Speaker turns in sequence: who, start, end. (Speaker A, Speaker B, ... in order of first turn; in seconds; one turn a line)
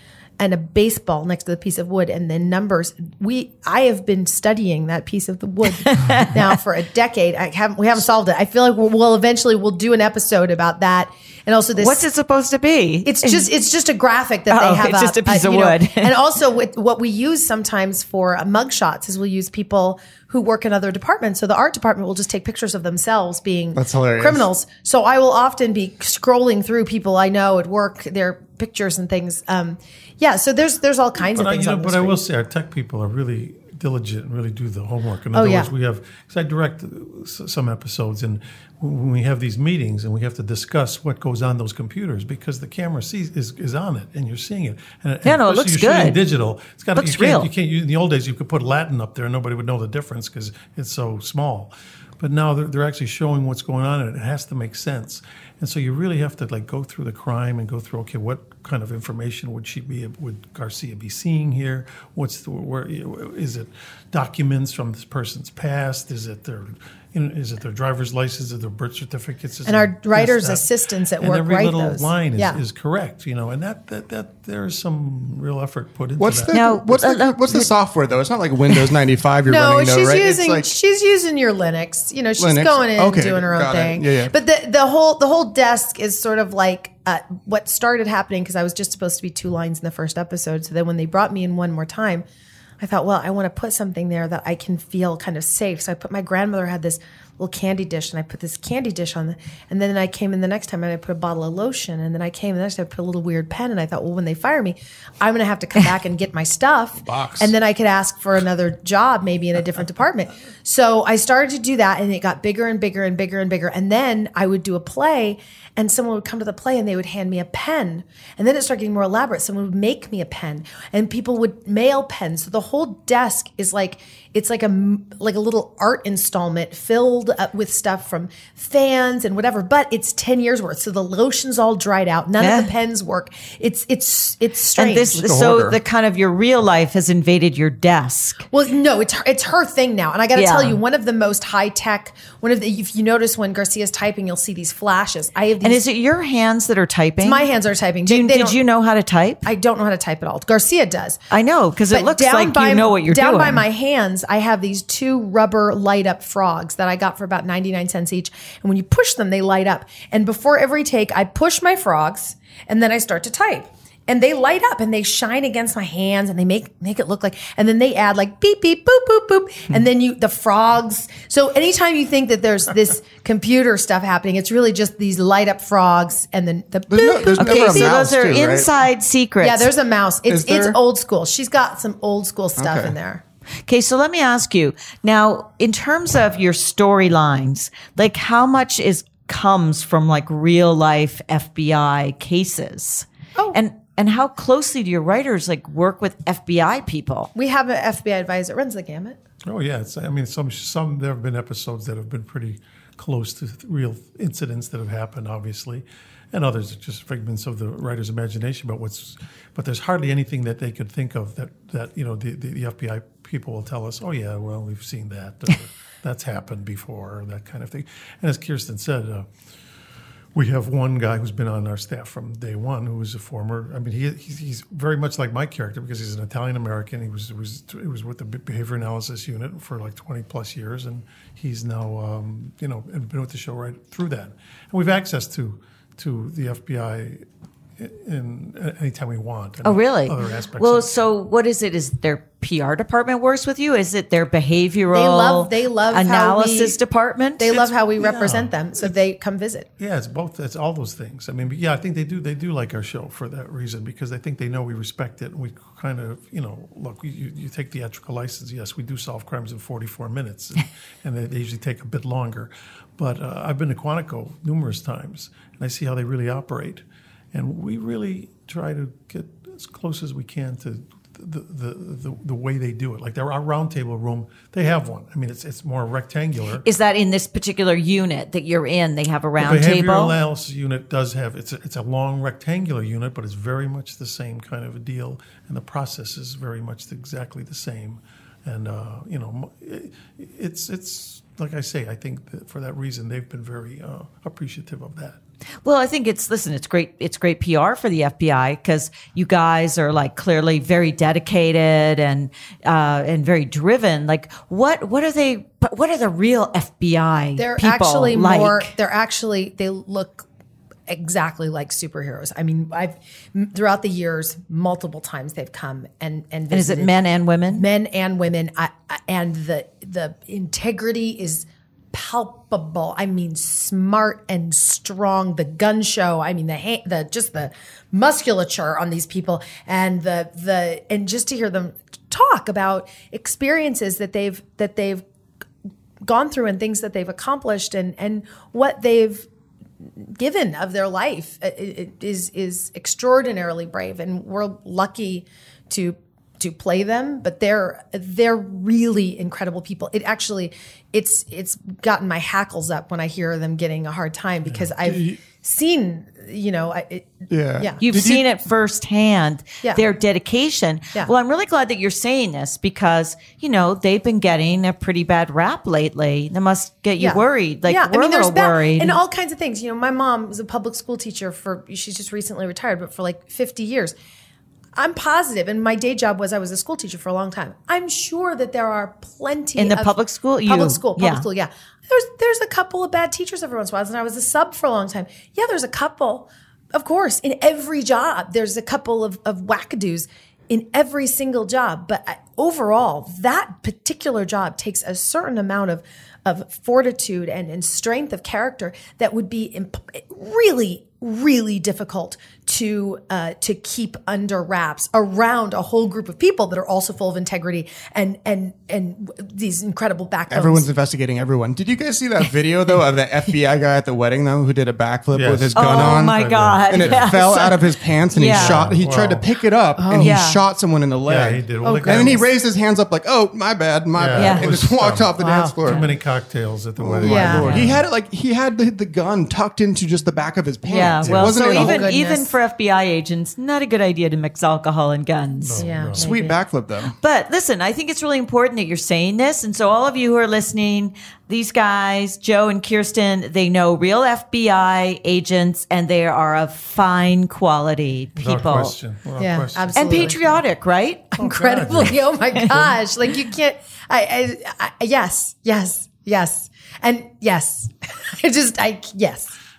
Speaker A: 0.4-12.0
Speaker B: 5.8-6.4
Speaker B: 11.8-13.5
Speaker A: 13.1-32.2
Speaker B: 14.5-16.1
Speaker C: 23.8-24.5
Speaker D: 31.2-70.7
Speaker A: 35.3-35.7
Speaker B: 45.2-46.2
Speaker B: 47.0-47.5
Speaker A: 69.7-72.6
Speaker D: 71.2-76.5
Speaker C: 76.2-80.7
Speaker B: 76.5-77.7
Speaker A: 79.5-92.2
Speaker C: 82.4-84.3
Speaker A: 92.8-135.2
Speaker C: 107.0-107.5
Speaker B: 132.4-132.7
Speaker B: 134.8-138.5
Speaker C: 135.1-135.8
Speaker A: 138.5-145.8
Speaker B: 140.3-140.8
Speaker B: 145.6-147.4
Speaker A: 147.2-148.6
Speaker B: 148.1-149.5
Speaker A: 149.4-151.2
Speaker B: 151.3-153.6
Speaker A: 151.9-178.1
Speaker C: 176.9-178.7
Speaker B: 177.4-179.7
Speaker A: 179.4-183.2
Speaker C: 180.3-180.8
Speaker C: 182.6-182.9
Speaker B: 183.7-197.3
Speaker A: 197.3-199.2
Speaker D: 199.4-219.3
Speaker D: 220.3-237.2
Speaker D: 237.8-240.9
Speaker B: 239.6-247.6
Speaker A: 244.9-246.8
Speaker A: 247.4-249.7
Speaker D: 247.5-248.9
Speaker D: 249.8-276.7
Speaker B: 276.6-280.2
Speaker D: 279.4-295.2
Speaker B: 295.6-308.7
Speaker A: 307.4-310.2
Speaker A: 310.9-335.0
Speaker B: 316.5-317.7
Speaker A: 336.1-339.3
Speaker A: 340.0-357.8
Speaker C: 354.8-355.2
Speaker C: 357.3-358.2
Speaker B: 357.8-369.0
Speaker A: 367.0-373.9
Speaker A: 374.8-379.9
Speaker B: 379.6-381.3
Speaker A: 380.5-410.7
Speaker C: 410.3-416.2
Speaker D: 415.1-417.1
Speaker B: 415.6-418.7
Speaker C: 416.7-425.9
Speaker D: 418.3-419.2
Speaker A: 419.8-420.2
Speaker B: 420.0-420.4
Speaker D: 421.1-422.2
Speaker A: 421.6-422.3
Speaker D: 423.9-427.9
Speaker B: 424.1-424.5
Speaker A: 425.2-425.6
Speaker C: 426.8-431.8
Speaker A: 427.0-427.7
Speaker B: 430.6-435.7
Speaker D: 431.0-431.3
Speaker A: 431.2-432.3
Speaker D: 435.4-436.1
Speaker A: 435.6-436.4
Speaker C: 436.0-436.9
Speaker B: 436.8-448.8
Speaker D: 448.2-450.4
Speaker A: 449.2-450.4
Speaker B: 449.8-451.0
Speaker A: 451.1-459.4
Speaker D: 451.2-452.7